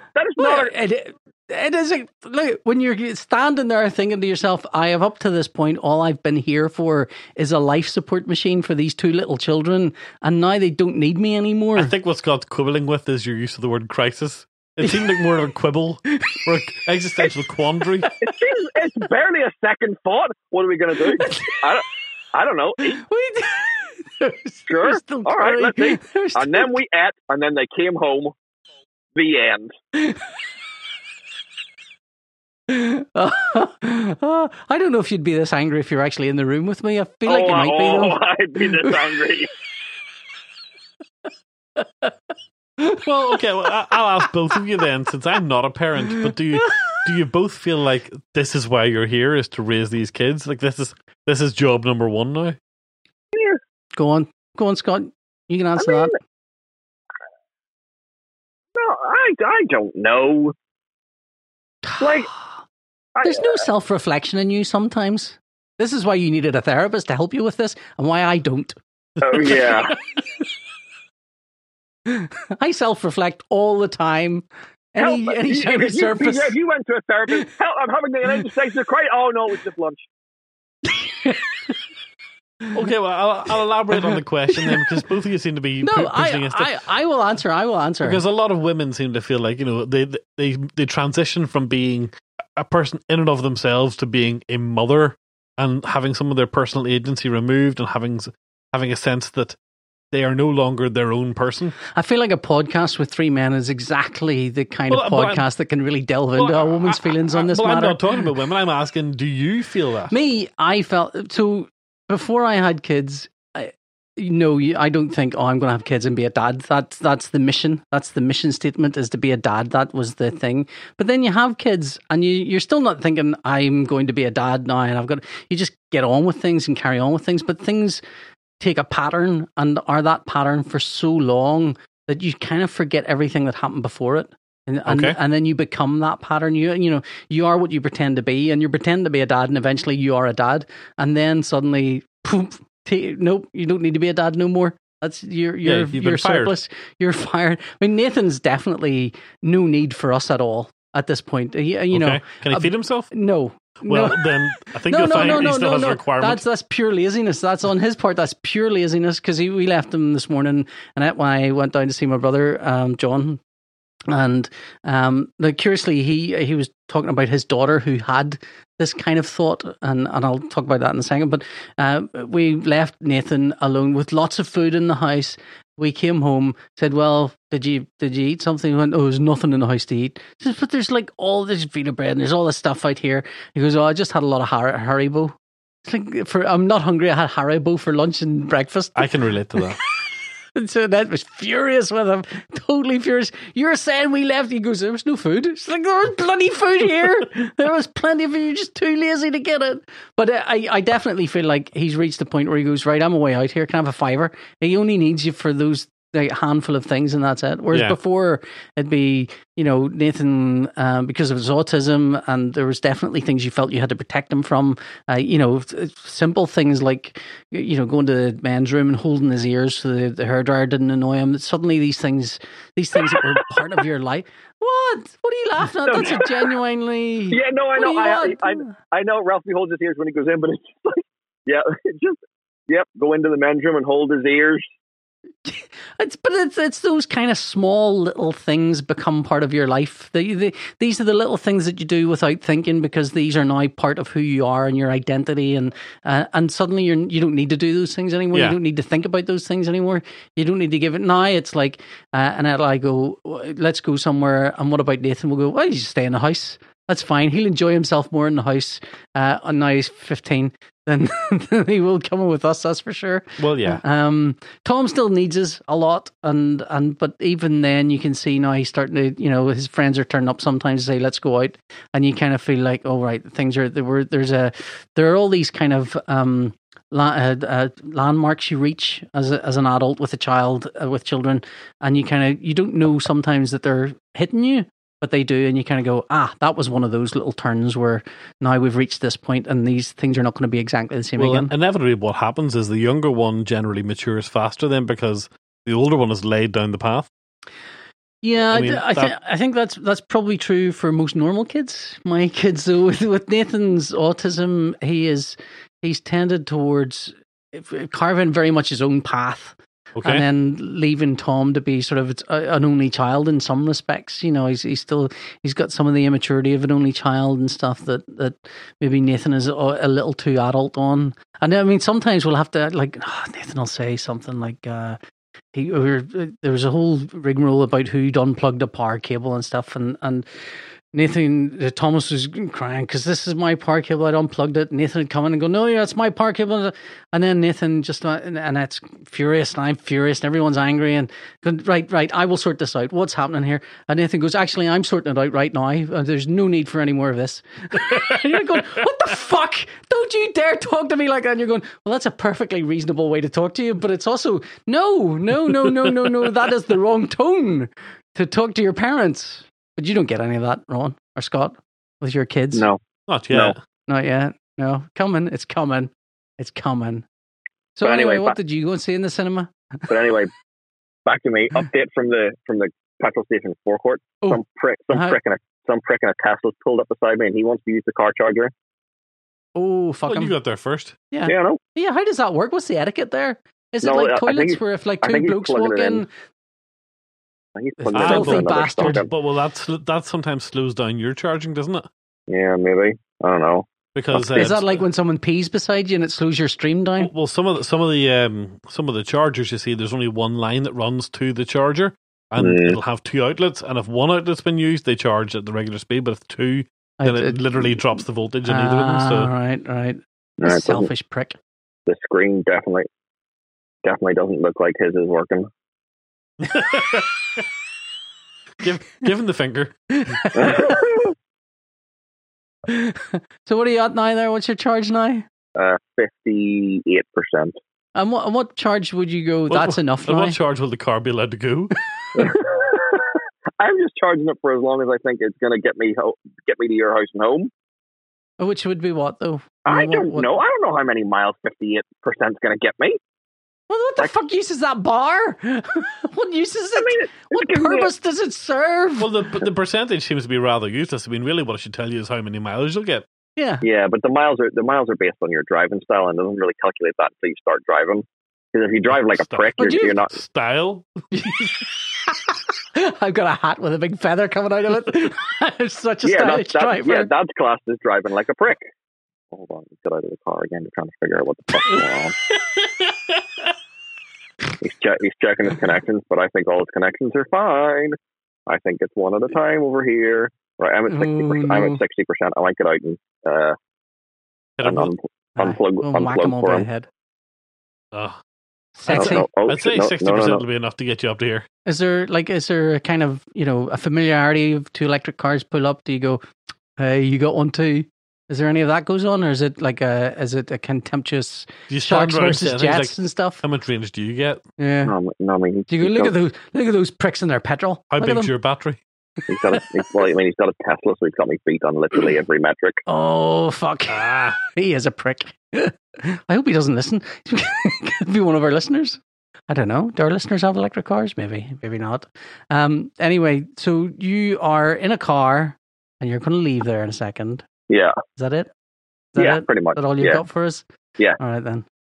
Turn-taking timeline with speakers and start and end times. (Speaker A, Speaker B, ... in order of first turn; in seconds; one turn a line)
Speaker A: 0.1-0.7
Speaker B: 0.4-11.9
Speaker C: 11.8-18.1
Speaker B: 16.1-16.4
Speaker A: 18.2-23.0
Speaker B: 21.1-21.6
Speaker B: 22.8-26.7
Speaker A: 24.7-28.3
Speaker A: 29.1-29.7
Speaker B: 29.9-30.2
Speaker B: 32.7-39.1
Speaker A: 37.2-39.5
Speaker B: 41.8-42.1
Speaker B: 42.8-43.0
Speaker C: 43.0-52.6
Speaker B: 46.2-46.8
Speaker A: 53.3-53.6
Speaker B: 54.0-56.2
Speaker A: 55.8-56.1
Speaker A: 58.8-60.5
Speaker B: 61.8-62.4
Speaker A: 62.0-62.3
Speaker A: 63.1-63.6
Speaker B: 63.2-70.2
Speaker A: 69.2-70.0
Speaker B: 72.0-76.5
Speaker A: 75.0-80.0
Speaker B: 80.8-81.4
Speaker C: 82.7-86.7
Speaker B: 84.0-85.0
Speaker B: 85.8-88.2
Speaker C: 88.0-99.6
Speaker C: 100.1-101.7
Speaker B: 101.9-108.1
Speaker C: 104.9-105.4
Speaker C: 106.3-110.1
Speaker B: 110.1-128.0
Speaker B: 128.6-163.4
Speaker C: 134.8-135.2
Speaker C: 145.6-146.5
Speaker C: 151.9-153.1
Speaker C: 153.8-156.4
Speaker B: 164.1-185.3
Speaker B: 185.8-189.9
Speaker C: 188.9-189.8
Speaker B: 190.5-228.7
Speaker C: 207.7-208.0
Speaker A: 225.8-226.3
Speaker A: 227.3-234.6
Speaker B: 235.4-291.5
Speaker C: 248.3-248.6
Speaker C: 263.4-263.8
Speaker C: 291.2-297.1
Speaker B: 298.2-325.0
Speaker C: 298.5-299.1
Speaker C: 309.9-310.2
Speaker B: 325.5-330.3
Speaker B: 330.9-362.7
Speaker C: 347.8-348.9
Speaker A: 362.5-362.8
Speaker C: 363.1-363.6
Speaker A: 363.3-363.6
Speaker B: 363.9-367.0
Speaker B: 367.8-369.5
Speaker A: 367.8-368.4
Speaker A: 369.9-370.3
Speaker A: 371.1-378.5
Speaker B: 379.6-380.3
Speaker C: 380.1-380.9
Speaker B: 381.1-386.1
Speaker A: 381.2-381.6
Speaker A: 383.8-386.0
Speaker A: 387.6-389.1
Speaker B: 387.8-389.0
Speaker C: 387.9-391.9
Speaker A: 392.3-394.4
Speaker C: 393.9-394.8
Speaker B: 394.3-397.1
Speaker C: 397.0-409.3
Speaker A: 402.4-402.8
Speaker B: 407.0-407.8
Speaker B: 408.4-411.4
Speaker A: 410.4-410.9
Speaker A: 411.9-412.9
Speaker A: 413.8-415.5
Speaker C: 416.4-417.1
Speaker C: 418.6-420.1
Speaker B: 420.0-420.8
Speaker A: 420.3-421.1
Speaker B: 422.7-425.2
Speaker A: 425.6-427.6
Speaker B: 427.9-430.4
Speaker C: 429.5-431.7
Speaker A: 432.1-437.5
Speaker B: 438.4-440.3
Speaker A: 439.6-443.0
Speaker B: 443.7-449.1
Speaker A: 446.8-447.9
Speaker C: 449.0-453.1
Speaker B: 453.4-453.6
Speaker A: 453.6-460.1
Speaker C: 458.9-461.0
Speaker B: 459.6-460.0
Speaker B: 461.1-467.1
Speaker A: 466.0-468.6
Speaker A: 469.3-472.1
Speaker C: 472.3-473.5
Speaker A: 474.6-483.6
Speaker B: 480.9-481.8
Speaker C: 484.6-484.9
Speaker A: 484.6-486.7
Speaker B: 485.4-486.9
Speaker C: 487.9-488.2
Speaker B: 488.8-489.3
Speaker C: 488.9-491.4
Speaker A: 488.9-490.4
Speaker B: 491.6-496.2
Speaker B: 496.8-503.4
Speaker C: 501.7-504.4
Speaker B: 504.6-504.9
Speaker A: 504.8-506.1
Speaker B: 505.7-508.3
Speaker C: 507.9-508.8
Speaker A: 509.3-512.8
Speaker B: 512.9-527.4
Speaker C: 513.9-514.4
Speaker A: 527.7-528.0
Speaker B: 528.1-528.5
Speaker B: 529.1-530.6
Speaker A: 529.2-530.2
Speaker B: 531.2-531.6